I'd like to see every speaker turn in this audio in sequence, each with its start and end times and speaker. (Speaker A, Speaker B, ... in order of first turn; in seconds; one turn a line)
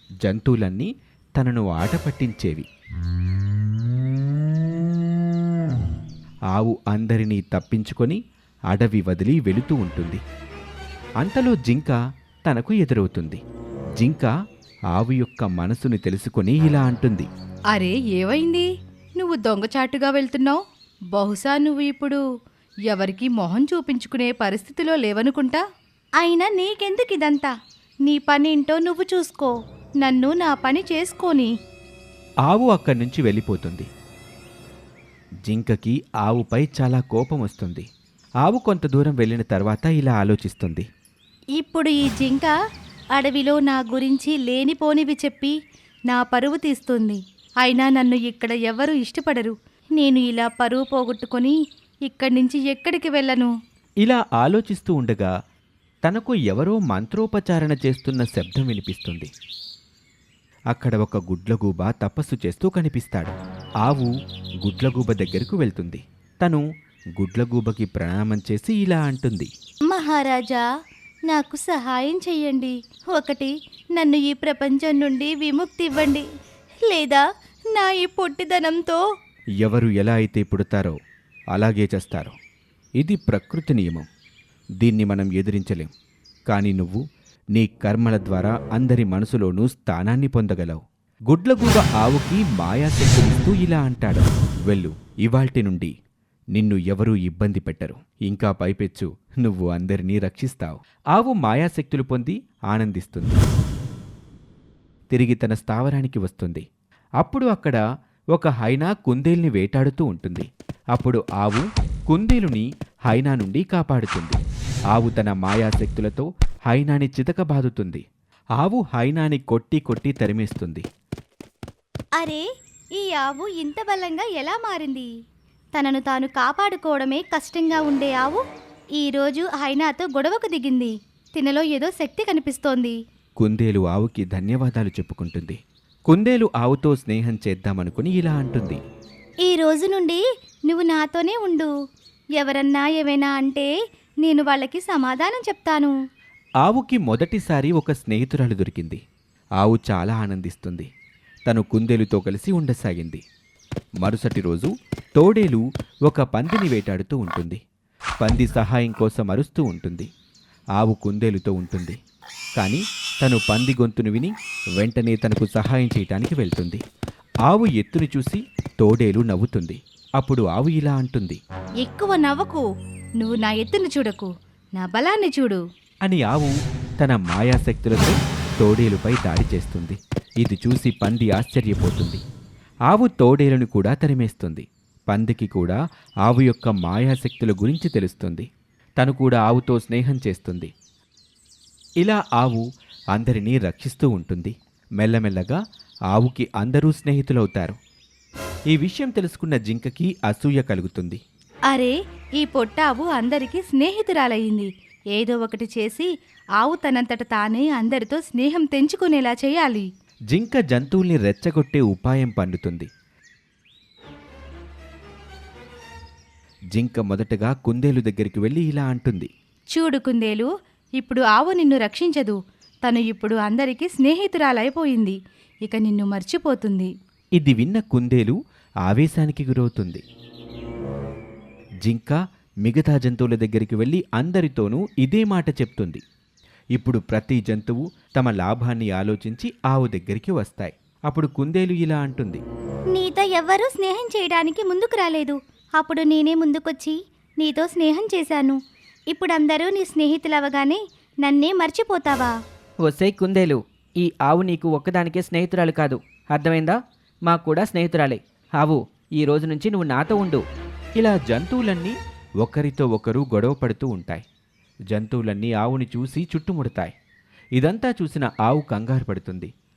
Speaker A: 0.2-2.7
Speaker A: 6.5-8.2
Speaker A: 8.7-10.2
Speaker A: 11.2-13.4
Speaker A: 14.0-14.3
Speaker A: 14.9-17.3
Speaker B: 17.7-20.6
Speaker B: 21.1-22.2
Speaker B: 22.9-25.6
Speaker B: 26.2-27.5
Speaker B: 28.0-31.5
Speaker A: 32.5-33.9
Speaker A: 35.5-37.9
Speaker A: 38.4-40.9
Speaker B: 41.6-42.5
Speaker B: 43.1-45.5
Speaker B: 46.1-53.5
Speaker A: 54.0-55.3
Speaker A: 56.0-59.3
Speaker A: 60.7-64.1
Speaker A: 64.6-66.6
Speaker A: 67.2-69.5
Speaker B: 69.9-70.6
Speaker B: 71.3-76.3
Speaker B: 76.9-79.0
Speaker A: 79.6-81.0
Speaker A: 81.5-82.3
Speaker A: 83.0-84.1
Speaker A: 84.8-85.9
Speaker A: 86.5-87.0
Speaker A: 87.5-95.9
Speaker A: 96.5-103.4
Speaker A: 105.1-106.6
Speaker A: 107.2-107.8
Speaker A: 108.3-114.4
Speaker A: 114.9-118.0
Speaker A: 118.6-120.8
Speaker B: 122.2-122.4
Speaker B: 122.9-125.1
Speaker B: 125.7-128.4
Speaker B: 129.0-133.0
Speaker A: 133.4-138.8
Speaker B: 139.4-141.7
Speaker B: 142.4-143.7
Speaker B: 144.2-145.9
Speaker A: 146.6-149.0
Speaker A: 149.6-150.9
Speaker A: 151.5-153.2
Speaker A: 154.0-157.6
Speaker A: 158.2-160.1
Speaker A: 160.8-162.0
Speaker A: 162.6-166.8
Speaker A: 167.5-171.4
Speaker B: 171.8-172.6
Speaker B: 173.2-175.6
Speaker A: 176.0-182.2
Speaker A: 182.9-188.5
Speaker A: 189.0-190.7
Speaker A: 192.0-192.6
Speaker A: 193.1-195.6
Speaker A: 196.1-197.8
Speaker A: 198.7-201.2
Speaker B: 201.7-209.9
Speaker A: 210.3-212.9
Speaker A: 216.7-219.3
Speaker B: 219.7-226.9
Speaker A: 227.4-230.0
Speaker A: 231.8-236.0
Speaker A: 236.7-242.4
Speaker B: 242.9-248.6
Speaker B: 249.1-252.3
Speaker C: 252.8-260.4
Speaker A: 261.0-264.2
Speaker A: 264.9-266.9
Speaker A: 267.6-269.5